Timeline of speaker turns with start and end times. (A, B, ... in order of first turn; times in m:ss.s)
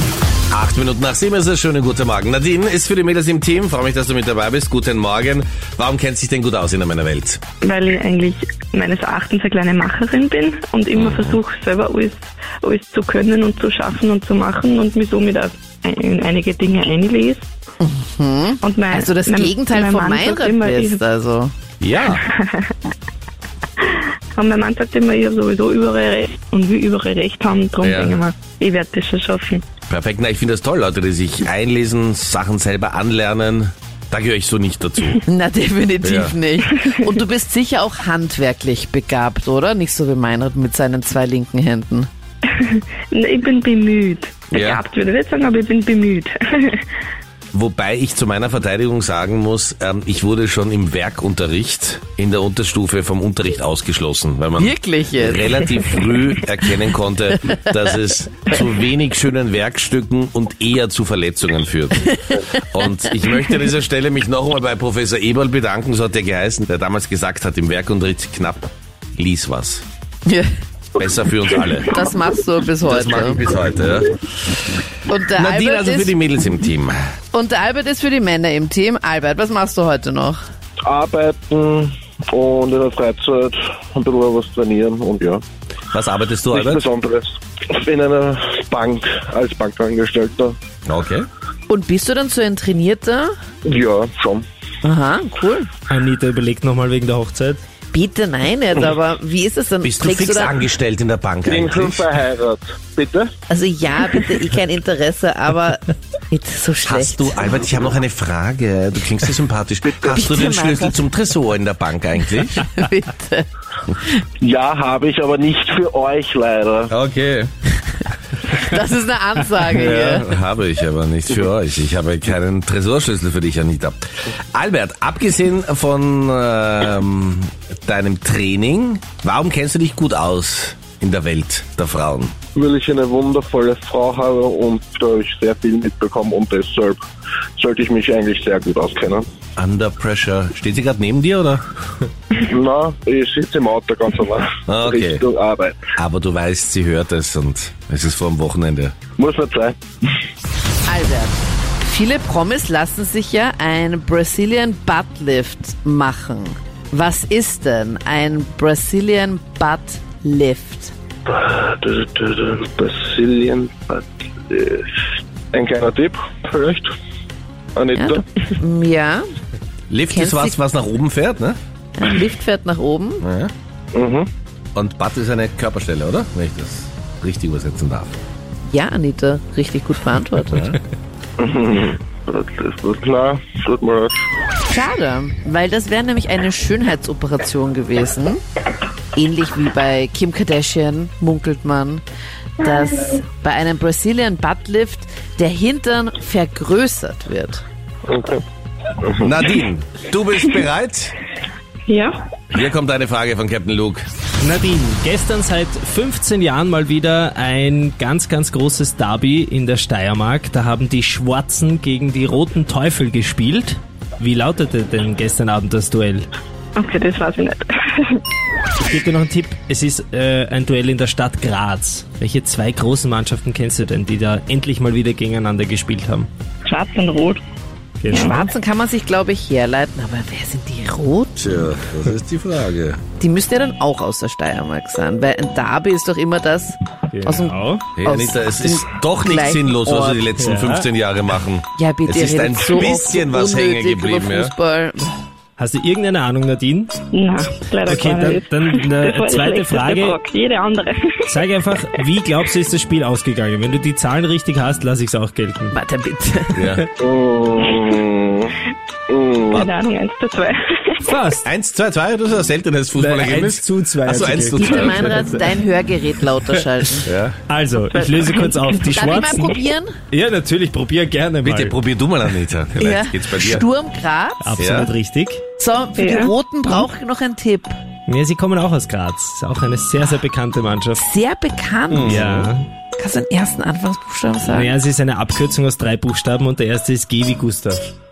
0:00.5-0:07.4 A
0:07.6-0:17.4 B
0:11.0-0:11.4 A
0:17.8-0:21.5 C
0:18.6-0:21.0 B
0:21.8-0:22.2 A
0:22.2-0:22.7 B
0:23.8-0:29.6 B
0:27.8-0:28.2 A
0:29.9-0:35.2 A
0:35.3-0:42.1 C
0:36.0-0:36.4 A
0:42.5-0:46.9 B
0:44.5-0:44.8 A
0:47.5-1:02.1 A
0:54.6-0:56.2 C
1:02.0-1:02.6 C
1:02.7-1:09.8 A
1:11.0-1:12.0 A
1:11.8-1:13.4 C
1:12.8-1:14.2 A
1:15.1-1:16.1 C
1:15.3-1:17.0 A
1:17.3-1:20.4 C
1:20.9-1:25.4 D
1:25.9-1:26.8 A
1:26.5-1:30.6 D
1:30.8-1:31.3 A
1:31.7-1:33.3 C
1:33.6-1:34.4 D
1:34.8-1:35.7 C
1:35.9-1:37.6 E
1:37.9-1:40.6 C
1:39.8-1:42.0 A
1:41.4-1:43.3 D
1:43.5-1:47.6 C
1:46.8-1:52.6 A
1:49.9-1:50.2 D
1:50.1-1:51.0 C
1:52.6-1:53.4 C
1:54.4-1:56.9 D
1:56.9-1:57.5 A
1:58.5-2:00.3 C
1:59.7-2:04.0 A
2:04.5-2:12.3 A
2:12.5-2:17.0 D
2:17.6-2:19.2 D
2:19.6-2:21.6 A
2:22.4-2:25.9 D
2:24.7-2:25.2 A
2:26.0-2:28.9 A
2:29.2-2:29.8 D
2:30.9-2:40.9 C
2:41.3-2:46.9 D
2:47.8-2:48.2 D
2:47.9-2:49.2 C
2:49.9-2:51.6 A
2:50.1-2:50.6 C
2:52.0-2:53.2 C
2:53.2-2:53.5 A
2:53.9-2:54.3 D
2:54.7-2:58.1 A
2:58.7-3:00.7 C
3:00.5-3:00.8 A
3:01.4-3:04.2 D
3:04.7-3:08.4 C
3:09.1-3:12.0 C
3:12.6-3:17.6 C
3:18.1-3:18.4 D
3:19.0-3:19.3 D
3:19.2-3:21.1 A
3:21.9-3:22.3 B
3:22.5-3:24.1 A
3:24.4-3:36.3 E
3:36.8-3:38.2 B
3:38.8-3:46.3 E
3:46.6-3:47.4 B
3:48.0-3:48.5 E
3:48.1-3:48.4 B
3:48.1-3:51.5 C
3:51.4-3:53.0 A
3:53.2-4:00.2 C
3:57.1-3:57.8 E
3:57.9-4:04.5 A
4:00.4-4:00.9 E
4:01.8-4:05.2 C
4:05.6-4:07.0 E
4:07.1-4:11.2 B
4:07.8-4:10.2 E
4:11.3-4:15.8 E
4:15.7-4:16.6 C
4:16.5-4:16.8 A
4:17.0-4:18.5 D
4:19.1-4:19.6 D
4:19.5-4:21.0 B
4:21.0-4:21.4 E
4:21.4-4:25.2 A
4:22.9-4:25.6 E
4:24.6-4:27.1 C
4:27.0-4:27.4 A
4:27.5-4:29.6 E
4:27.9-4:29.0 B
4:28.9-4:29.9 C
4:30.1-4:31.8 E
4:31.4-4:33.7 A
4:32.8-4:34.7 C
4:34.4-4:35.4 E
4:34.6-4:34.9 A
4:35.6-4:37.7 C
4:36.0-4:36.3 B
4:38.1-4:41.0 E
4:41.0-4:42.2 C
4:41.9-4:42.5 A
4:42.0-4:42.7 E
4:43.0-4:44.7 C
4:44.4-4:47.8 E